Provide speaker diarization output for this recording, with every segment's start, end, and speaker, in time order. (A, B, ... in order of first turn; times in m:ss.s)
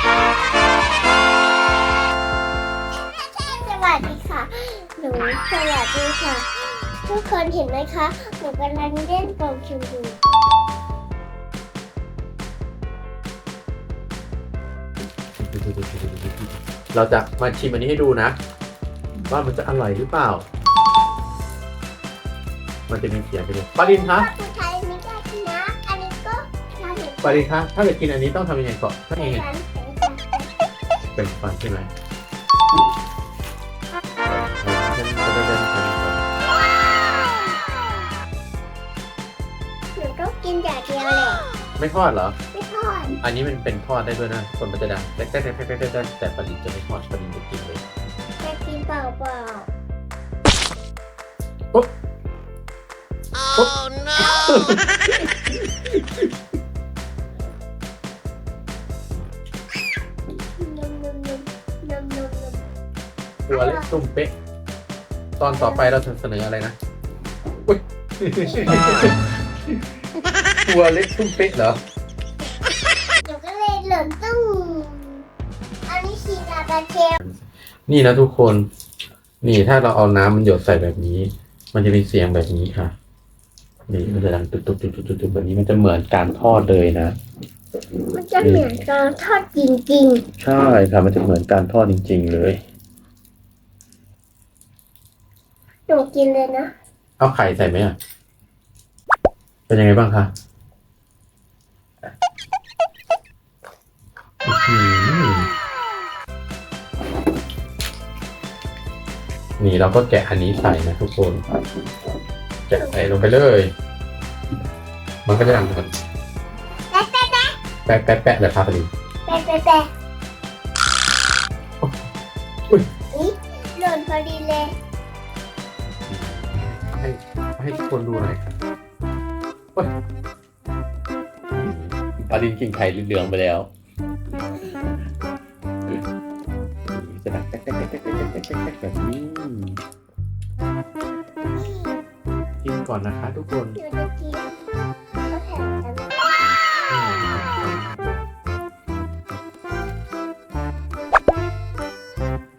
0:02.9-0:10.2 A
0:15.4-0:18.4 B
0:19.2-0:20.4 B
0:22.9-0:24.3 B
0:23.8-0:27.5 A
0:27.2-0:29.4 B
0:29.2-0:30.5 A
0:31.1-0:31.9 B
0:34.2-0:36.2 B
0:39.9-0:41.4 A
0:41.8-0:42.4 B
0:42.5-0:43.2 A
0:43.2-0:47.8 B
0:48.4-0:49.7 A
0:53.5-0:55.0 B
0:55.5-0:56.2 B
1:00.6-1:02.7 A
1:03.5-1:04.3 B
1:03.5-1:04.0 A
1:05.4-1:06.8 B
1:05.5-1:05.9 A
1:07.7-1:09.9 B
1:10.6-1:11.8 B
1:12.6-1:15.3 A
1:15.9-1:17.2 A
1:17.2-1:18.7 B
1:19.4-1:22.9 B
1:23.9-1:27.2 B
1:28.1-1:30.2 A
1:28.4-1:28.6 B
1:30.4-1:32.6 B
1:35.9-1:36.7 A
1:37.2-1:38.0 B
1:39.7-1:40.3 B
1:44.4-1:45.5 B
1:49.6-1:51.4 B
1:52.7-1:53.7 B
1:55.2-1:55.9 B
1:56.9-1:57.5 A
1:57.8-1:58.9 B
1:59.3-1:59.9 A
2:03.1-2:04.7 A
2:06.1-2:08.5 B
2:11.6-2:13.7 B
2:16.9-2:19.8 B
2:21.5-2:22.0 A
2:22.6-2:23.8 B
2:23.8-2:24.6 A
2:25.3-2:26.4 A
2:26.9-2:28.1 B